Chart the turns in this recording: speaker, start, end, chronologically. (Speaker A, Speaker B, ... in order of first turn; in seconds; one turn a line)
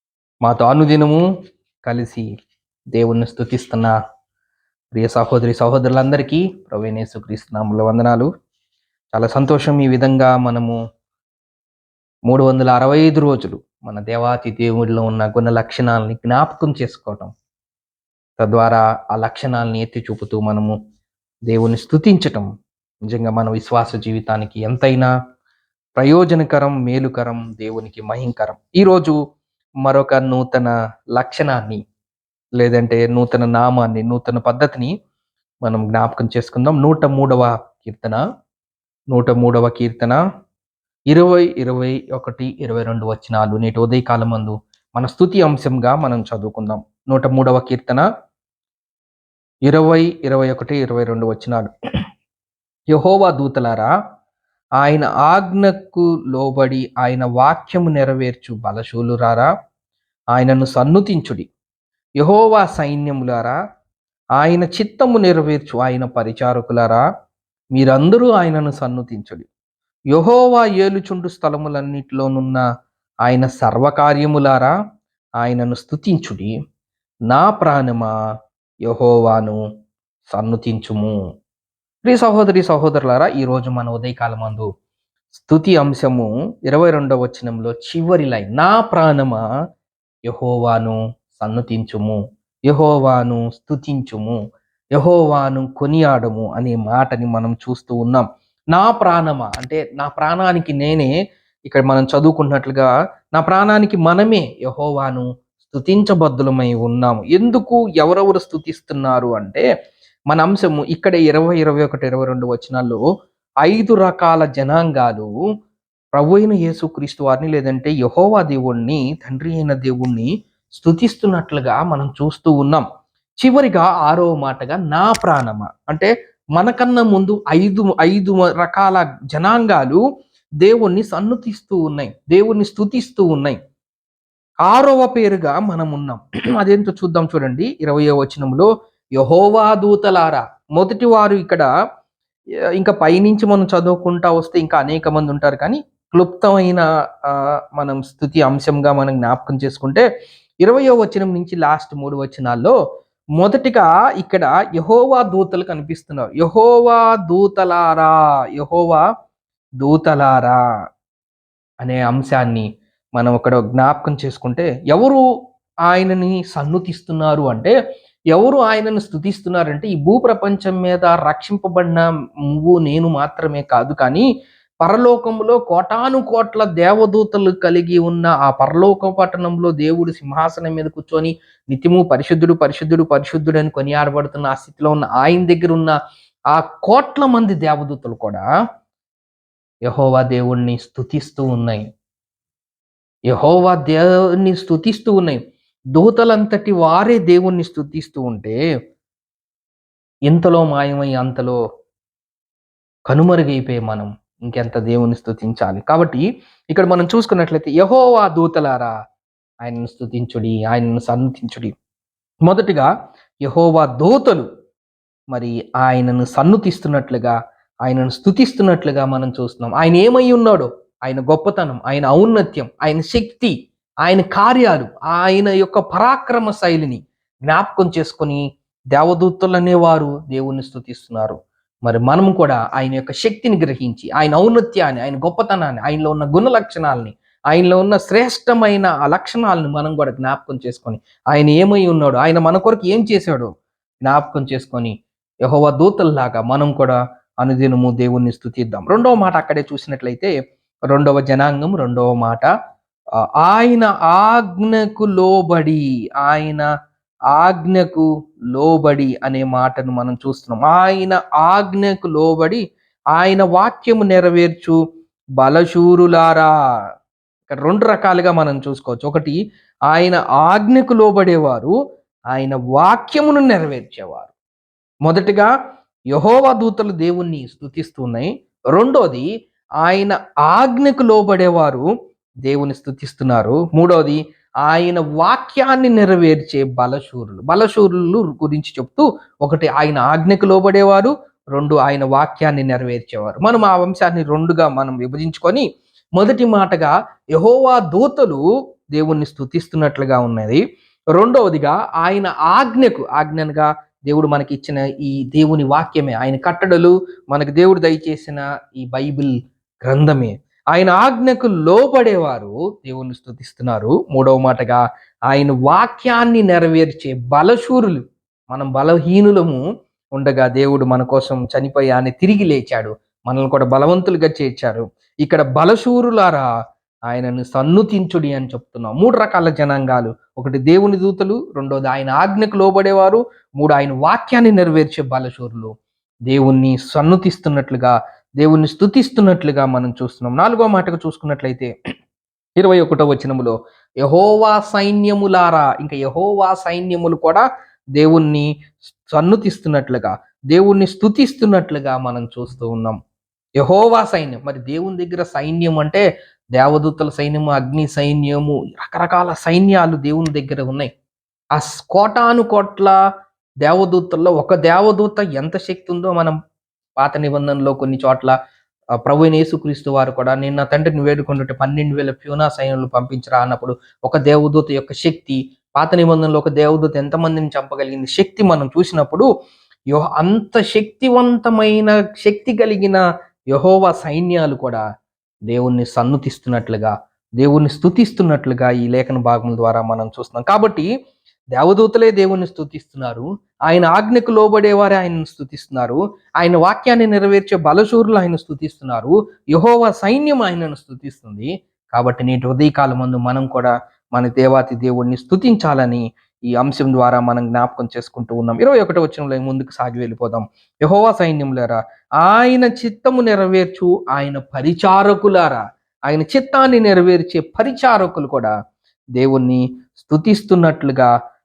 Speaker A: 0.4-1.2
Speaker A: 1.9-2.3
Speaker A: 2.9-3.9
Speaker A: 4.9-8.3
Speaker A: 9.1-10.8
Speaker A: 12.3-17.3
Speaker A: 18.4-20.7
Speaker A: 21.5-22.5
Speaker A: 23.1-25.1
Speaker A: 26.0-29.1
Speaker A: 29.8-31.8
Speaker A: 32.6-34.9
Speaker A: 35.6-38.2
Speaker A: 39.1-40.2
Speaker A: 41.1-48.0
Speaker A: 49.7-51.7
Speaker A: 52.9-53.9
Speaker A: 54.8-59.5
Speaker A: 60.3-61.5
Speaker A: 62.2-63.5
Speaker A: 64.4-67.0
Speaker A: 67.7-69.5
Speaker A: 70.1-72.7
Speaker A: 73.2-74.7
Speaker A: 75.4-76.5
Speaker A: 77.3-78.1
Speaker A: 78.8-79.6
Speaker A: 80.3-81.2
Speaker A: 82.0-84.7
Speaker A: 85.3-89.4
Speaker A: 90.3-94.4
Speaker A: 95.0-101.1
Speaker A: 101.7-109.6
Speaker A: 110.3-113.0
Speaker A: 113.6-115.3
Speaker A: 116.1-122.8
Speaker A: 123.4-130.0
Speaker A: 130.6-133.6
Speaker A: 134.7-141.7
Speaker A: 142.8-150.0
Speaker A: 150.6-152.7
Speaker A: 153.4-159.0
Speaker A: 159.8-160.6
Speaker A: 161.8-162.7
Speaker A: 163.2-165.2
Speaker A: 165.9-167.7
Speaker A: 168.3-172.0
Speaker A: 172.6-174.3
Speaker A: 174.8-185.9
Speaker A: 186.5-188.4
Speaker A: 189.9-191.8
Speaker A: 193.3-195.4
Speaker A: 195.9-198.6
Speaker A: 200.3-201.5
Speaker A: 203.1-208.9
Speaker A: 209.6-211.7
Speaker A: 212.4-212.9
Speaker A: 213.4-214.4
Speaker A: 215.3-223.5
Speaker A: 224.0-228.4
Speaker A: 228.9-243.5
Speaker A: 244.0-244.9
Speaker A: 245.4-250.3
Speaker A: 250.9-252.5
Speaker A: 253.4-256.7
Speaker A: 257.3-262.6
Speaker A: 263.1-264.8
Speaker A: 265.4-266.5
Speaker A: 267.5-269.4
Speaker A: 269.9-271.7
Speaker A: 272.3-274.3
Speaker A: 275.1-275.5
Speaker A: 276.1-279.3
Speaker A: 279.8-281.9
Speaker A: 282.4-295.6
Speaker A: 296.2-298.4
Speaker A: 298.9-300.6
Speaker A: 301.1-309.3
Speaker A: 309.8-319.6
Speaker A: 320.1-326.4
Speaker A: 327.1-335.7
Speaker A: 336.3-341.7
Speaker A: 342.6-347.4
Speaker A: 347.9-348.4
Speaker A: 349.1-353.0
Speaker A: 353.6-356.0
Speaker A: 356.6-360.9
Speaker A: 361.5-362.9
Speaker A: 363.6-366.3
Speaker A: 367.0-368.3
Speaker A: 369.0-379.3
Speaker A: 379.9-383.0
Speaker A: 383.5-384.8
Speaker A: 385.5-390.9
Speaker A: 391.5-406.0
Speaker A: 406.6-418.5
Speaker A: 419.1-421.1